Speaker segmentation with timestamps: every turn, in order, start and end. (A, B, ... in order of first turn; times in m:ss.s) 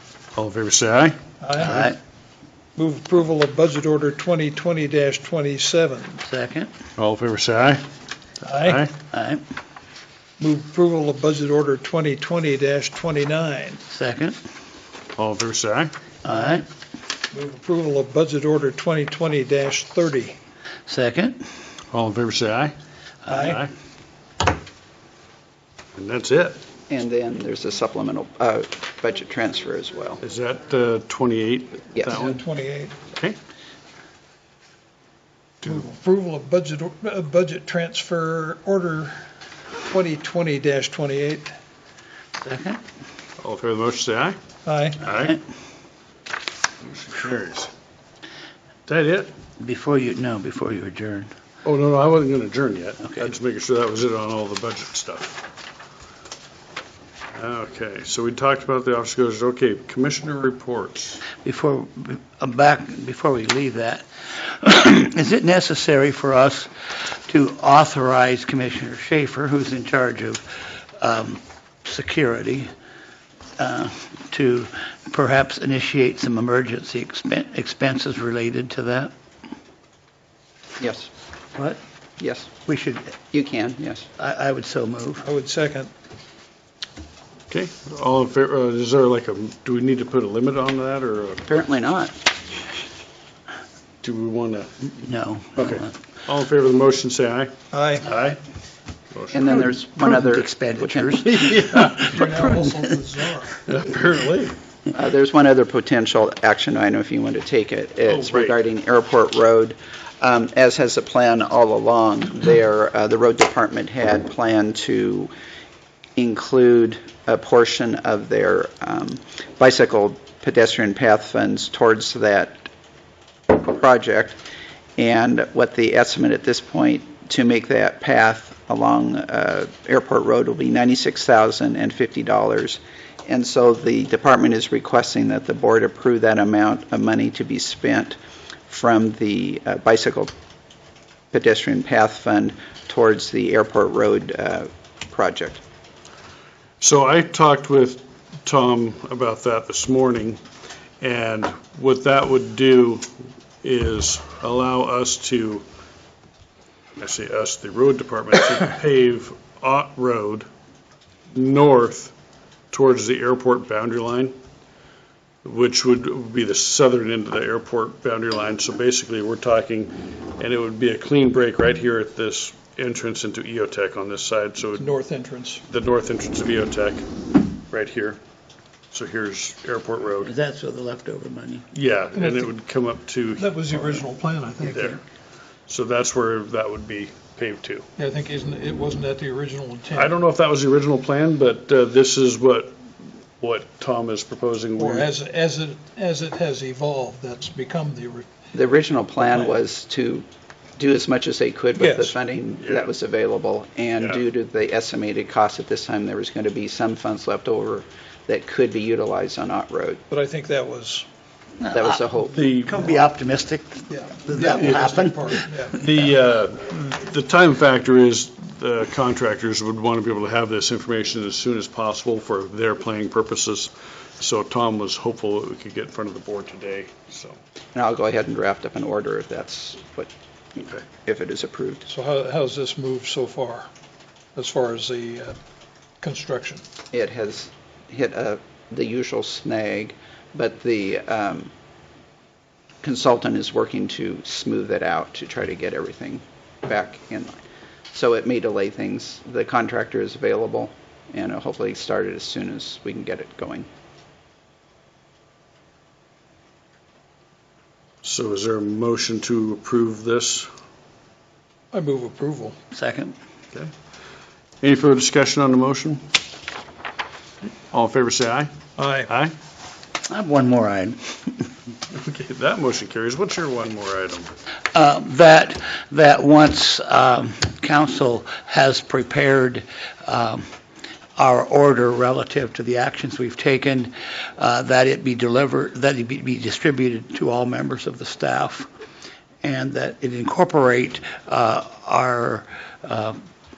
0:00.4-0:01.2 A
0:01.4-0:01.9 B
0:01.6-0:02.0 C
0:02.8-0:06.2 B
0:06.2-0:06.7 C
0:07.0-0:07.8 A
0:08.4-0:08.8 B
0:08.5-0:08.9 A
0:09.1-0:09.4 C
0:10.4-0:13.8 B
0:13.9-0:14.4 C
0:15.2-0:15.9 A
0:16.2-0:16.6 C
0:17.3-0:20.4 B
0:20.9-0:21.4 C
0:21.9-0:22.7 A
0:23.3-0:23.6 B
0:23.3-0:23.7 A
0:26.0-0:26.6 A
0:26.9-0:30.2 D
0:30.2-0:32.4 A
0:31.9-0:32.2 D
0:32.1-0:33.0 B
0:33.1-0:33.4 A
0:35.6-0:39.2 B
0:39.8-0:41.5 B
0:42.4-0:42.8 C
0:43.4-0:44.4 A
0:44.6-0:45.0 B
0:45.0-0:45.4 A
0:46.8-0:47.7 A
0:48.8-0:49.3 A
0:49.6-0:51.3 C
0:51.6-0:55.5 A
0:57.3-1:01.2 A
1:01.4-1:10.4 C
1:11.0-1:12.7 C
1:13.6-1:19.1 C
1:20.8-1:21.1 D
1:22.2-1:22.5 D
1:22.6-1:23.2 C
1:23.3-1:24.1 D
1:24.2-1:25.2 C
1:25.2-1:25.9 B
1:27.5-1:31.5 A
1:31.4-1:32.1 D
1:34.0-1:34.7 A
1:34.9-1:35.9 C
1:35.6-1:38.4 A
1:37.7-1:38.0 B
1:39.1-1:39.7 A
1:39.3-1:41.1 D
1:40.0-1:42.9 C
1:41.3-1:42.1 A
1:41.8-1:43.6 B
1:43.6-1:44.5 A
1:44.9-1:55.3 D
1:48.0-1:48.6 A
1:56.2-2:02.7 D
2:03.5-2:04.4 D
2:05.0-2:18.2 D
2:18.7-2:20.3 D
2:21.3-2:25.6 D
2:26.8-2:30.4 A
2:31.0-2:33.1 A
2:33.6-2:35.6 A
2:37.0-2:40.5 A
2:41.3-2:42.1 A
2:42.7-2:44.3 A
2:45.4-2:54.9 A
2:54.8-2:55.6 B
2:55.7-2:58.2 A
2:58.9-3:00.3 A
3:00.2-3:01.6 C
3:01.7-3:04.0 A
3:02.2-3:02.5 B
3:03.4-3:05.0 B
3:04.7-3:05.0 A
3:05.7-3:07.9 A
3:08.0-3:10.1 B
3:09.9-3:12.8 A
3:13.4-3:15.1 A
3:14.8-3:18.3 B
3:18.5-3:20.2 D
3:20.8-3:30.0 D
3:21.8-3:22.2 B
3:22.6-3:22.9 A
3:30.1-3:31.0 B
3:31.6-3:32.0 C
3:31.7-3:32.4 D
3:32.3-3:32.8 A
3:32.6-3:35.4 C
3:33.9-3:35.8 B
3:35.7-3:47.4 A
3:47.7-3:50.1 D
3:50.6-3:50.8 A
3:51.0-3:51.8 D
3:51.8-3:53.7 B
3:54.4-3:55.4 B
3:56.0-3:56.6 B
3:56.9-4:01.5 D
4:02.8-4:07.4 D
4:07.9-4:13.7 D
4:18.0-4:20.5 A
4:21.7-4:22.6 B
4:22.7-4:23.1 C
4:24.6-4:26.0 A
4:27.7-4:28.5 A
4:28.8-4:29.1 B
4:29.0-4:29.3 A
4:30.1-4:31.5 C
4:31.9-4:34.3 A
4:34.7-4:40.4 C
4:41.2-4:48.7 C
4:49.4-4:53.2 C